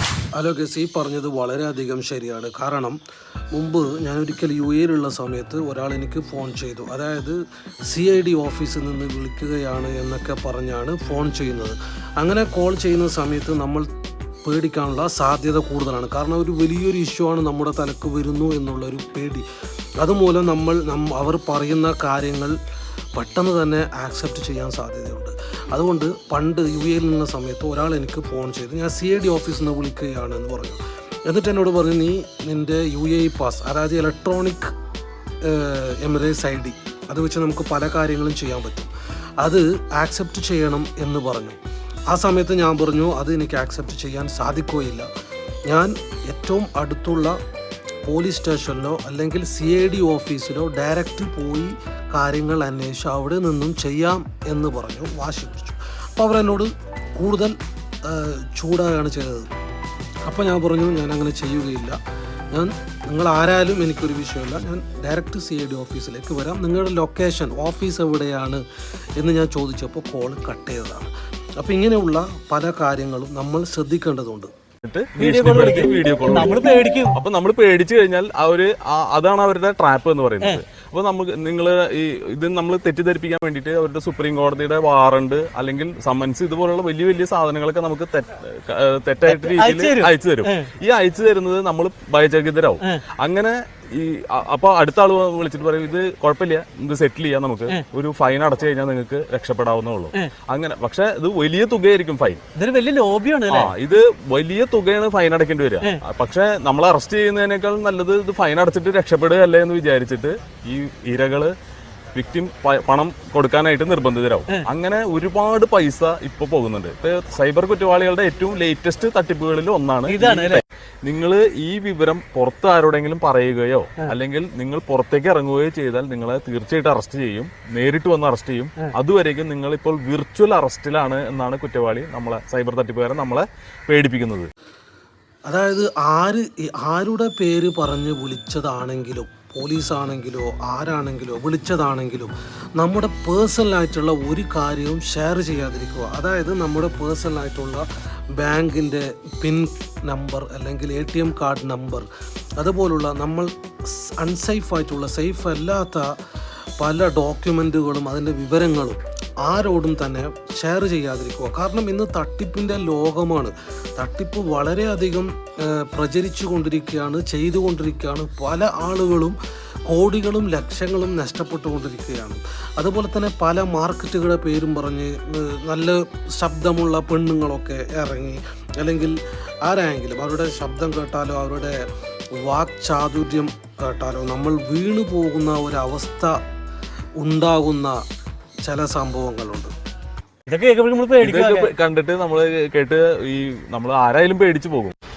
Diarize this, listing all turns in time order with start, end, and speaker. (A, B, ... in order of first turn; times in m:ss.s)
0:00.4-0:03.0 A
0:03.5-0:07.4 A
0:07.9-0:13.8 A
0:14.4-0:19.4 A
0:20.0-0:22.5 A
0:23.2-0:34.7 A
0:35.4-0:41.6 A
0:42.1-0:45.1 A
0:45.7-0:47.3 A
0:48.0-0:57.5 A
0:58.0-0:59.5 A
1:00.2-1:02.0 A
1:02.5-1:08.6 A
1:09.2-1:14.5 A
1:14.8-1:16.6 B
1:15.2-1:17.2 C
1:17.1-1:42.4 B
1:29.3-1:30.7 C
1:42.6-1:43.7 C
1:43.5-1:51.5 B
1:52.1-2:14.5 B
2:00.1-2:00.6 C
2:15.5-2:27.8 A
2:28.4-2:32.1 A
2:32.6-2:36.1 A
2:36.8-2:49.4 A
2:49.9-3:01.8 A
3:02.4-3:06.4 A
3:07.2-3:08.0 A
3:08.6-3:09.7 A
3:10.5-3:11.7 C
3:11.2-3:14.9 B